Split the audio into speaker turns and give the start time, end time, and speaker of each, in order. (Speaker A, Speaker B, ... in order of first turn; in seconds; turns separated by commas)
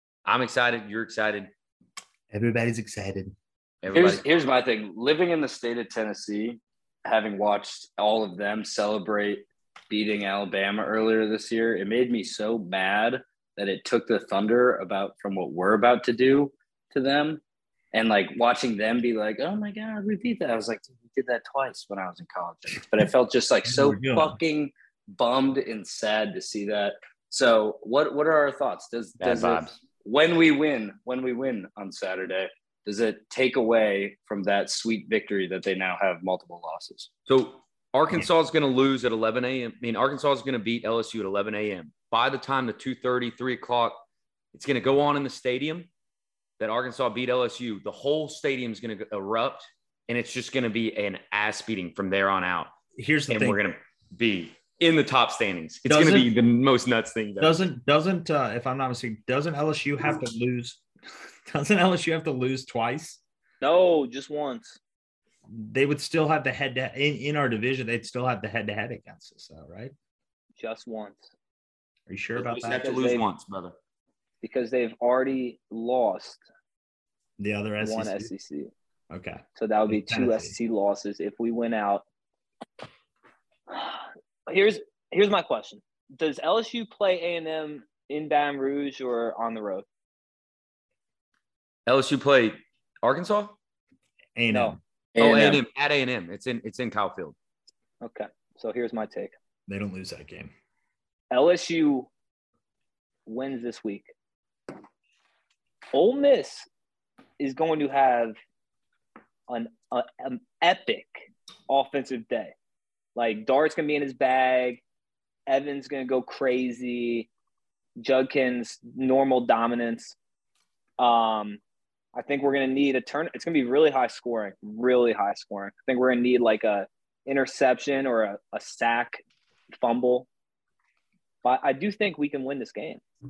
Speaker A: 0.3-1.5, Speaker B: 2.3-3.3, Speaker A: 3.8-4.2, Speaker C: 3.9-17.4, Speaker C: 17.9-37.1, Speaker B: 23.6-24.4, Speaker A: 29.2-29.8, Speaker A: 37.3-44.0, Speaker A: 44.5-45.9, Speaker A: 46.6-52.7, Speaker B: 53.0-53.6, Speaker A: 53.3-57.6, Speaker B: 55.9-56.3, Speaker B: 57.4-60.8, Speaker B: 61.5-63.2, Speaker D: 63.6-64.8, Speaker B: 65.5-69.9, Speaker D: 70.6-71.3, Speaker B: 72.1-72.8, Speaker A: 72.4-73.8, Speaker D: 72.8-73.2, Speaker D: 74.4-76.5, Speaker B: 77.4-78.3, Speaker D: 77.8-78.7, Speaker B: 79.1-80.5, Speaker D: 79.6-82.0, Speaker D: 83.7-89.9, Speaker A: 91.9-93.6, Speaker B: 94.4-94.8, Speaker D: 94.5-94.8, Speaker C: 95.2-95.6, Speaker A: 95.2-97.3, Speaker D: 98.0-99.3, Speaker B: 99.7-100.5, Speaker D: 101.3-102.1, Speaker D: 103.3-104.1, Speaker D: 105.9-106.7, Speaker D: 107.4-108.4, Speaker D: 109.5-112.5, Speaker D: 113.2-114.8, Speaker D: 115.5-117.3, Speaker D: 118.0-120.2, Speaker D: 121.0-121.6, Speaker D: 122.2-129.2, Speaker D: 129.8-130.3, Speaker D: 131.4-133.0